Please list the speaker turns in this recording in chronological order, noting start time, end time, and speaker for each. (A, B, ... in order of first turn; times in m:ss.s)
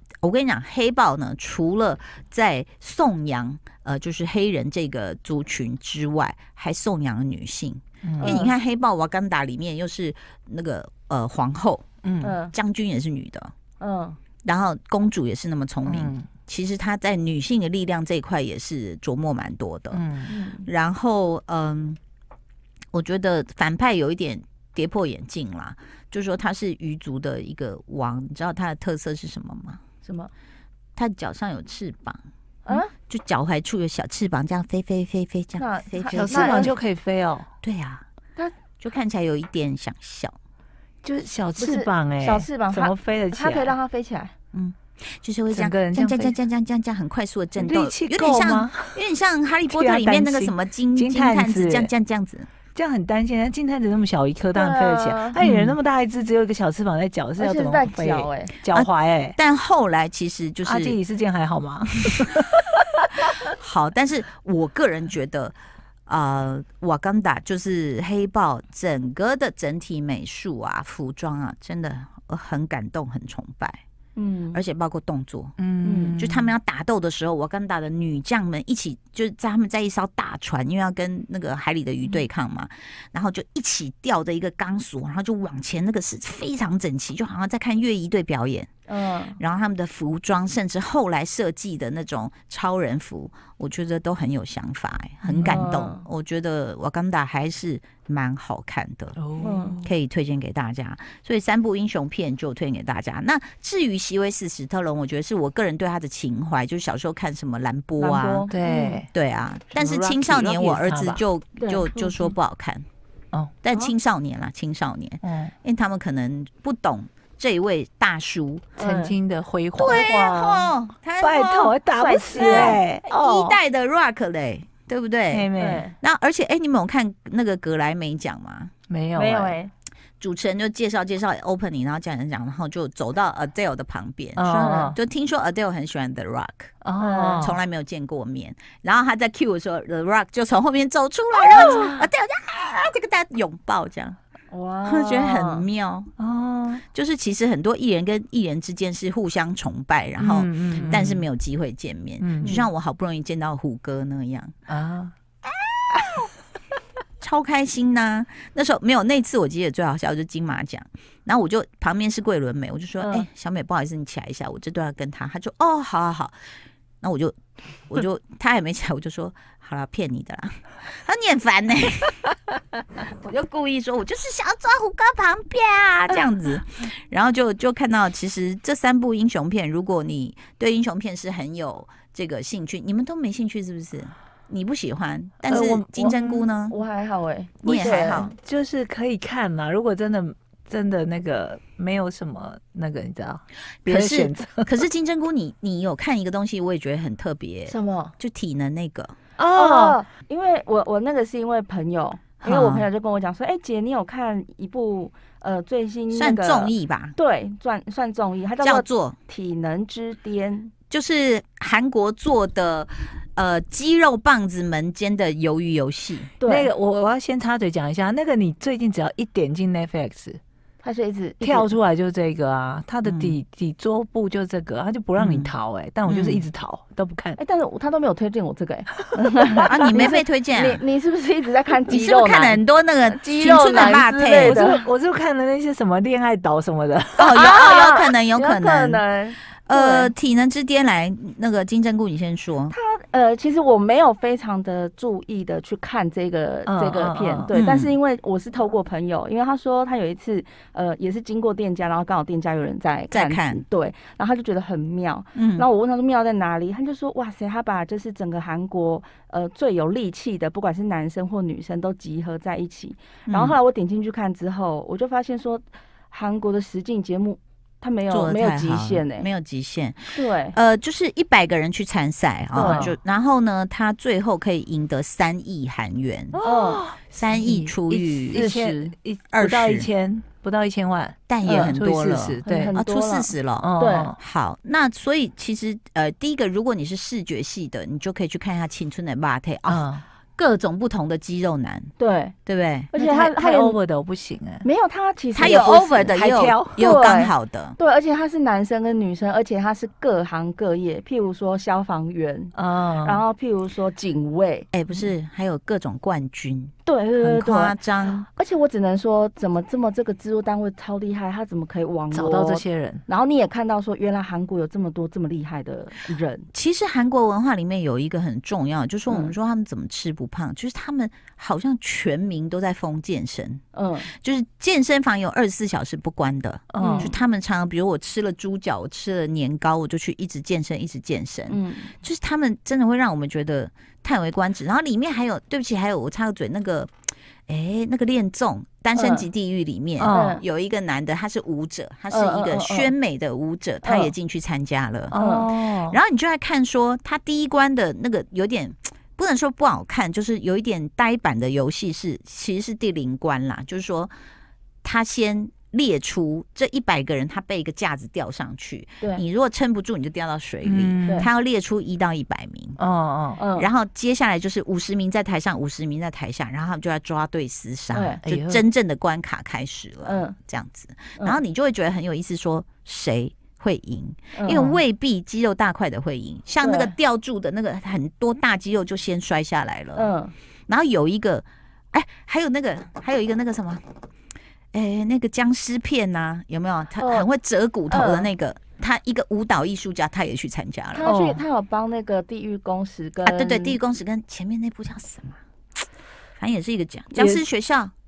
0:00.2-0:11.8 A
0:08.0-0:08.4 B
0:08.2-0:08.5 C
0:12.0-0:12.4 B
0:12.2-0:12.5 C
0:12.5-0:13.5 A
0:13.8-0:14.2 C
0:14.4-0:20.1 A
0:15.8-0:16.3 B
0:19.9-0:20.3 B
0:20.3-0:20.7 C
0:20.6-0:22.0 A
0:22.9-0:29.8 A
0:30.0-0:30.3 C
0:31.0-0:32.2 A
0:32.7-0:32.9 C
0:33.0-0:36.8 A
0:35.6-0:36.7 C
0:36.1-0:37.5 B
0:37.6-0:38.0 A
0:38.8-0:40.4 A
0:41.0-0:43.7 B
0:41.6-0:44.3 C
0:44.5-0:52.5 A
0:45.5-0:46.4 B
0:47.6-0:49.0 B
0:49.7-0:51.9 B
0:52.7-0:59.4 B
0:54.5-0:55.4 C
0:55.4-0:55.8 A
0:57.4-0:58.5 C
0:58.7-1:01.0 A
1:00.6-1:03.0 B
1:03.3-1:05.6 A
1:06.1-1:13.8 A
1:14.2-1:14.6 C
1:14.5-1:15.6 A
1:15.6-1:16.6 B
1:15.8-1:16.2 C
1:16.2-1:28.7 A
1:28.9-1:29.4 C
1:29.4-1:39.2 A
1:35.2-1:35.7 B
1:35.4-1:36.1 C
1:39.2-1:39.9 B
1:39.4-1:39.8 C
1:39.8-1:48.5 A
1:48.0-1:49.0 C
1:48.5-1:49.1 B
1:49.1-1:52.8 A
1:49.7-1:51.2 B
1:51.6-1:52.3 C
1:53.6-1:58.7 A
1:55.2-1:55.5 B
1:58.8-1:59.1 C
1:58.8-2:00.1 B
1:59.8-2:01.8 A
1:59.9-2:00.7 C
2:01.2-2:03.6 B
2:02.0-2:02.8 C
2:02.4-2:08.7 A
2:05.3-2:05.9 B
2:05.6-2:06.0 C
2:08.9-2:09.6 B
2:09.2-2:09.7 C
2:10.2-2:16.8 A
2:14.4-2:15.0 B
2:16.8-2:17.6 B
2:17.0-2:17.5 C
2:17.4-2:24.2 A
2:24.5-2:25.7 C
2:24.8-2:26.1 A
2:26.2-2:26.8 B
2:26.9-2:34.5 A
2:30.2-2:31.3 B
2:32.2-2:32.7 B
2:34.7-2:35.1 B
2:35.6-2:36.3 A
2:37.2-2:46.4 A
2:47.0-2:47.4 A
2:47.9-2:52.4 A
2:53.0-3:06.8 A
3:05.5-3:06.5 B
3:06.7-3:08.3 C
3:07.6-3:08.3 A
3:07.7-3:14.7 B
3:13.8-3:19.2 A
3:17.7-3:18.2 C
3:19.4-3:20.0 B
3:19.5-3:30.7 C
3:22.4-3:22.9 A
3:26.1-3:27.2 A
3:28.6-3:29.2 A
3:30.9-3:36.3 A
3:36.4-3:36.7 C
3:36.4-3:40.4 B
3:40.8-3:41.7 C
3:41.4-3:47.4 B
3:43.0-3:43.4 A
3:45.2-3:45.5 A
3:46.1-3:46.4 A
3:47.4-3:54.9 C
3:49.5-3:50.1 B
3:49.5-3:50.8 A
3:51.9-3:54.6 A
3:54.4-3:57.5 B
3:57.2-3:59.0 A
3:57.3-4:00.1 C
3:59.7-4:02.8 A
4:02.7-4:29.3 C
4:06.7-4:07.5 B
4:07.5-4:07.9 A
4:13.1-4:13.6 A
4:15.4-4:15.7 A
4:23.3-4:23.6 A
4:28.1-4:36.4 A
4:30.1-4:30.6 C
4:32.5-4:32.9 C
4:32.6-4:33.0 B
4:36.3-4:42.8 B
4:36.4-4:36.9 C
4:37.1-4:39.9 A
4:41.3-4:51.9 A
4:41.4-4:41.8 C
4:42.5-4:44.1 C
4:43.6-4:44.2 B
4:49.7-4:50.0 B
4:52.0-4:52.3 C
4:52.5-4:52.9 A
4:52.9-4:53.8 C
4:52.9-4:54.7 B
4:54.6-4:56.2 C
4:55.4-4:57.8 A
4:56.1-4:56.9 B
4:56.8-5:04.7 C
5:02.5-5:03.2 B
5:04.7-5:08.2 A
5:06.9-5:16.5 C
5:12.1-5:13.0 B
5:16.5-5:36.9 A
5:19.1-5:19.3 C
5:23.7-5:24.1 C
5:26.7-5:27.1 B
5:26.8-5:27.1 C
5:31.5-5:31.9 C
5:37.5-5:45.2 A
5:39.0-5:39.3 C
5:40.0-5:40.4 B
5:40.1-5:40.4 C
5:42.1-5:42.9 C
5:43.8-5:44.1 C
5:45.1-5:46.0 B
5:45.2-5:45.5 C
5:45.9-5:54.1 A
5:54.8-6:02.8 A
6:00.6-6:01.3 B
6:02.8-6:03.4 B
6:03.4-6:03.7 C
6:03.6-6:20.1 A
6:07.9-6:08.2 C
6:08.2-6:08.6 B
6:10.0-6:10.4 C
6:14.4-6:14.8 C
6:16.6-6:16.9 C
6:20.0-6:20.3 C
6:20.7-6:23.8 A
6:24.7-6:31.1 A
6:27.0-6:27.3 C
6:27.9-6:28.3 C
6:30.9-6:33.8 C
6:31.0-6:31.4 B
6:33.2-6:35.4 A
6:36.4-6:37.9 A
6:37.1-6:37.4 C